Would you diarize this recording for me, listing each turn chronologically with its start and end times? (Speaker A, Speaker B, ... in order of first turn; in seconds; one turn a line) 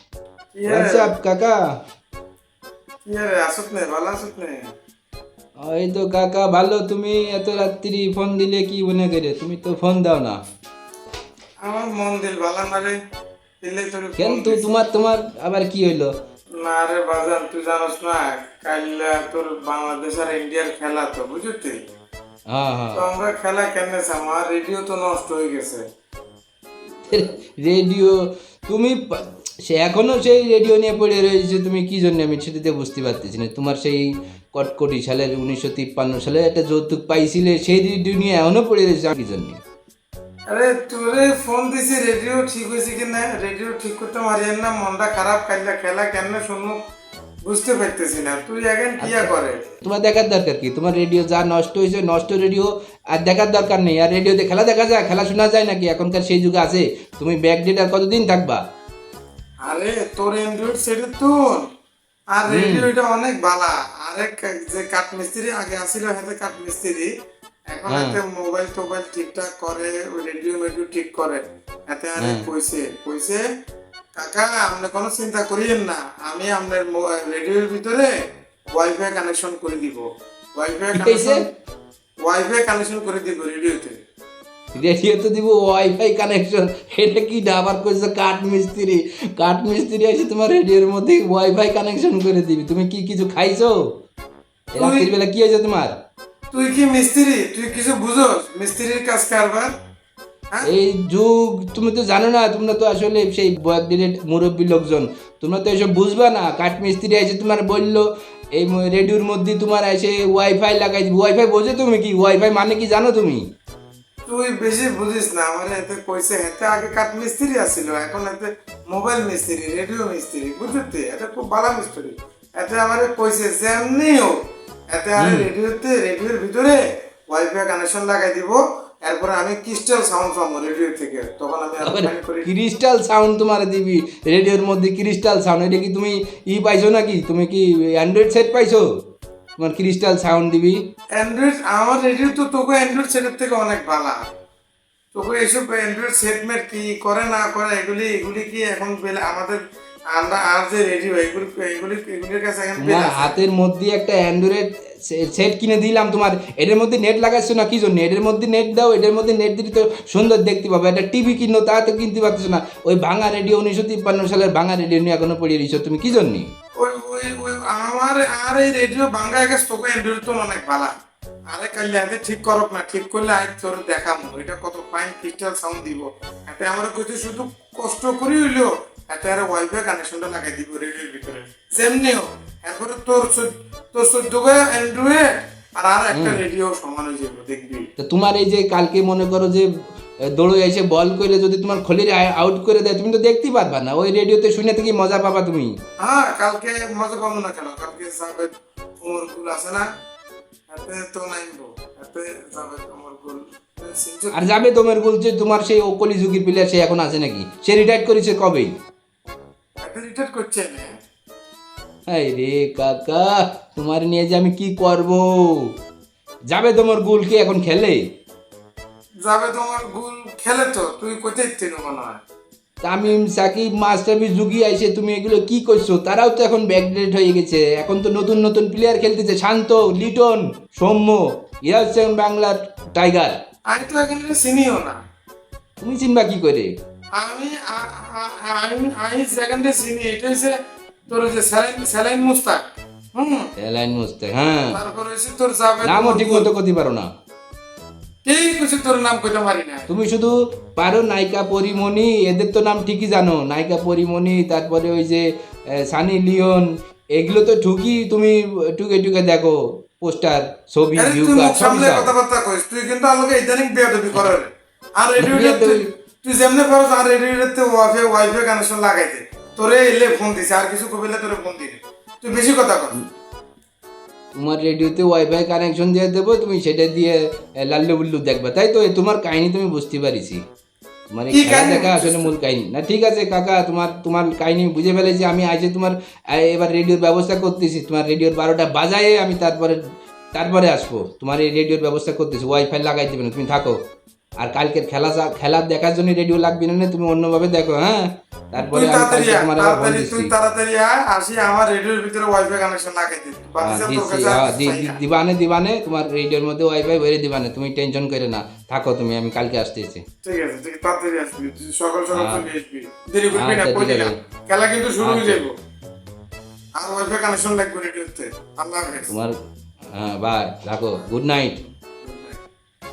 Speaker A: 0.5-1.1
Speaker B: 0.7-1.7
Speaker A: 3.0-4.7
Speaker B: 5.6-10.4
Speaker A: 11.6-12.9
Speaker A: 13.6-14.7
Speaker B: 14.2-16.1
Speaker A: 16.6-21.8
Speaker B: 22.5-23.0
Speaker A: 22.9-25.8
Speaker B: 27.0-39.6
Speaker A: 40.5-46.8
Speaker A: 47.4-49.6
Speaker B: 49.0-49.3
Speaker B: 49.8-58.6
Speaker A: 59.6-61.6
Speaker A: 62.3-67.1
Speaker B: 62.5-62.9
Speaker A: 67.7-73.4
Speaker B: 67.9-68.2
Speaker B: 72.2-72.5
Speaker A: 74.2-78.1
Speaker A: 78.8-81.4
Speaker B: 80.9-81.4
Speaker A: 82.2-84.0
Speaker B: 84.8-93.8
Speaker B: 94.7-95.9
Speaker A: 94.7-95.1
Speaker A: 96.5-99.7
Speaker B: 100.6-113.4
Speaker A: 114.3-124.3
Speaker A: 124.9-132.5
Speaker B: 125.2-125.5
Speaker B: 131.8-138.8
Speaker B: 139.6-140.8
Speaker A: 141.2-144.2
Speaker A: 145.1-149.6
Speaker A: 150.1-153.3
Speaker B: 152.8-166.5
Speaker A: 166.8-170.9
Speaker A: 171.5-187.9
Speaker B: 186.1-186.4
Speaker B: 188.0-189.7
Speaker B: 190.2-195.7
Speaker A: 196.0-199.8
Speaker A: 200.7-204.4
Speaker B: 204.3-208.7
Speaker A: 209.8-210.9
Speaker B: 212.1-215.7
Speaker B: 216.5-218.0
Speaker A: 219.2-222.2
Speaker B: 222.8-233.3
Speaker A: 233.7-235.0
Speaker B: 235.8-236.7
Speaker A: 237.2-240.5
Speaker A: 241.1-242.6
Speaker A: 243.1-243.5
Speaker B: 243.6-244.8
Speaker A: 244.7-246.5
Speaker B: 245.8-247.1
Speaker A: 248.2-249.9
Speaker B: 249.9-262.1
Speaker A: 260.9-273.0
Speaker B: 265.2-265.8
Speaker B: 274.4-280.4
Speaker B: 281.1-289.8
Speaker A: 281.3-282.3
Speaker B: 290.3-293.8
Speaker B: 294.4-300.3
Speaker A: 298.6-305.0
Speaker B: 303.6-310.0
Speaker A: 310.2-315.5
Speaker B: 312.1-312.4
Speaker B: 313.3-314.1
Speaker B: 315.0-315.4
Speaker A: 316.8-319.1
Speaker B: 319.1-319.4
Speaker B: 319.9-321.6
Speaker A: 322.0-322.4